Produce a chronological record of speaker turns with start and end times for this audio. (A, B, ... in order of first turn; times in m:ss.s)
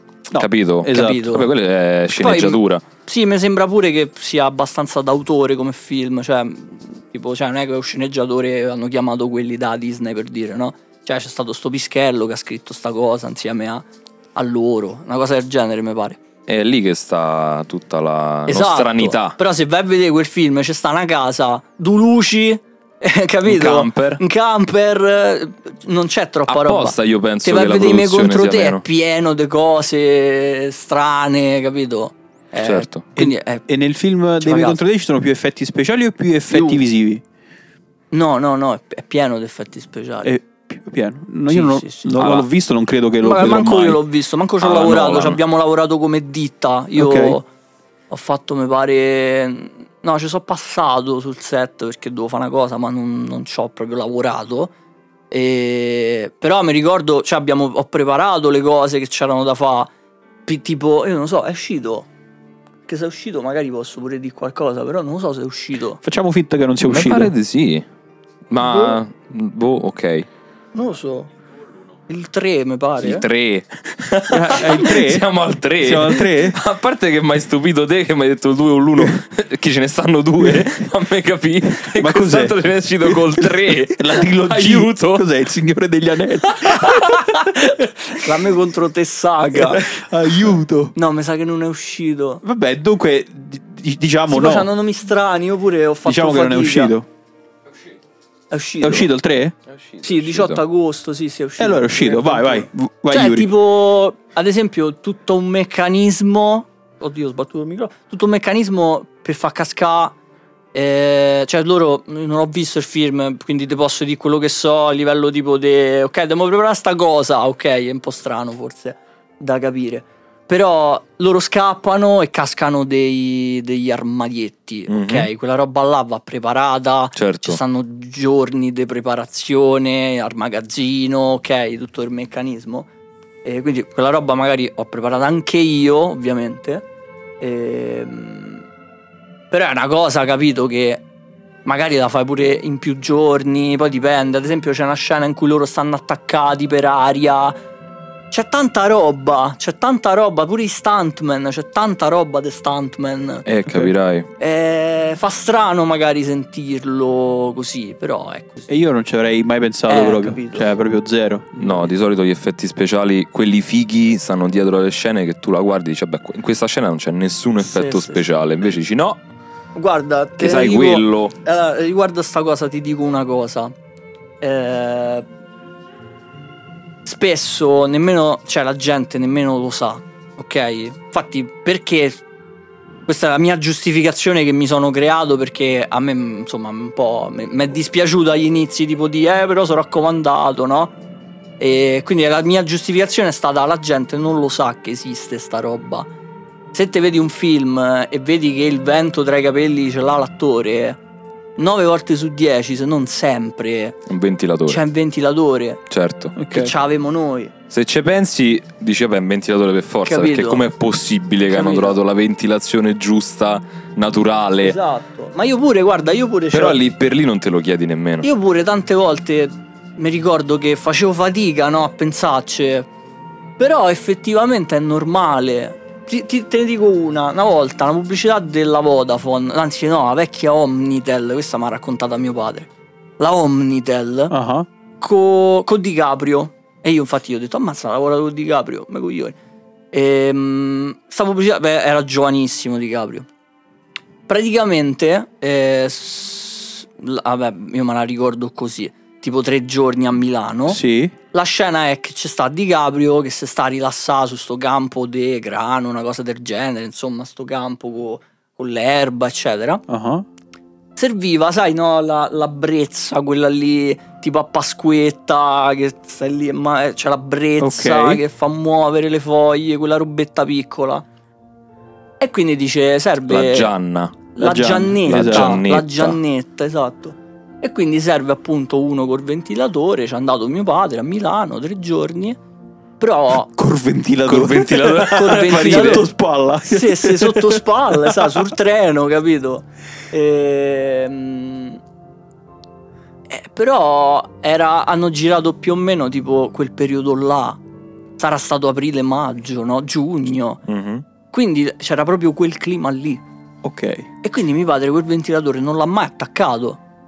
0:00.3-0:01.3 A
0:00.4-0:02.8 B
0:00.9-0:01.5 C
0:02.1-0:16.2 C
0:16.5-0:19.4 B
0:18.5-0:33.7 C
0:23.5-0:24.2 B
0:26.5-0:28.8 B
0:32.6-0:33.0 B
0:33.2-0:37.2 A
0:34.4-0:34.8 C
0:36.5-0:36.8 C
0:38.1-0:40.4 C
0:40.2-0:44.0 A
0:41.5-0:42.4 C
0:43.2-0:47.5 C
0:44.6-0:45.4 B
0:47.0-0:47.4 A
0:48.1-0:54.7 C
0:55.3-0:59.9 C
1:00.5-1:02.1 C
1:02.9-1:06.0 C
1:06.0-1:07.3 A
1:06.9-1:07.9 B
1:08.5-1:10.3 B
1:08.6-1:09.0 C
1:10.7-1:11.3 C
1:12.1-1:13.2 C
1:13.0-1:25.3 B
1:14.3-1:15.3 A
1:15.8-1:16.6 A
1:22.0-1:27.6 A
1:26.6-1:27.1 B
1:26.9-1:29.9 C
1:29.5-1:31.0 A
1:31.0-1:32.4 C
1:32.4-1:34.7 A
1:34.3-1:37.0 C
1:36.0-1:37.1 A
1:38.5-1:39.1 C
1:38.8-1:39.6 A
1:39.7-1:40.6 B
1:40.0-1:50.2 C
1:41.6-1:43.5 A
1:50.7-2:12.9 C
2:04.9-2:05.3 B
2:07.2-2:07.6 B
2:13.4-2:16.8 C
2:17.4-2:18.6 C
2:19.5-2:21.0 C
2:21.6-2:27.6 C
2:28.3-2:33.5 C
2:33.5-2:34.3 B
2:34.4-2:38.7 C
2:38.7-2:41.9 A
2:39.9-2:40.7 C
2:41.6-2:49.2 B
2:47.6-2:48.2 C
2:49.8-2:53.7 C
2:50.4-2:51.3 B
2:54.4-2:55.3 C
2:57.0-3:02.2 C
3:03.1-3:10.9 C
3:11.6-3:16.1 C
3:16.7-3:21.0 C
3:21.6-3:24.0 C
3:24.1-3:24.8 B
3:24.7-3:25.8 C
3:25.9-3:26.4 B
3:26.4-3:26.7 A
3:26.5-3:27.5 C
3:27.7-3:34.8 B
3:30.0-3:30.7 C
3:31.5-3:32.0 C
3:34.6-3:36.8 C
3:36.5-3:38.3 B
3:38.2-3:42.9 C
3:43.6-3:54.3 C
3:54.3-3:54.7 A
3:55.0-3:59.4 C
3:59.9-4:03.3 C
4:04.3-4:10.8 C
4:10.7-4:11.1 A
4:11.3-4:19.8 C
4:19.9-4:20.3 A
4:21.0-4:31.0 C
4:27.6-4:28.2 A
4:32.2-4:33.7 C
4:33.3-4:34.2 B
4:34.3-4:42.4 C
4:34.4-4:35.6 A
4:35.0-4:36.2 B
4:43.0-4:43.5 C
4:43.5-4:48.4 A
4:44.3-4:46.1 B
4:45.1-4:51.8 C
4:53.3-4:57.6 C
4:58.2-5:00.6 C
5:00.7-5:01.0 B
5:01.3-5:03.2 C
5:03.6-5:04.1 A
5:04.2-5:06.8 C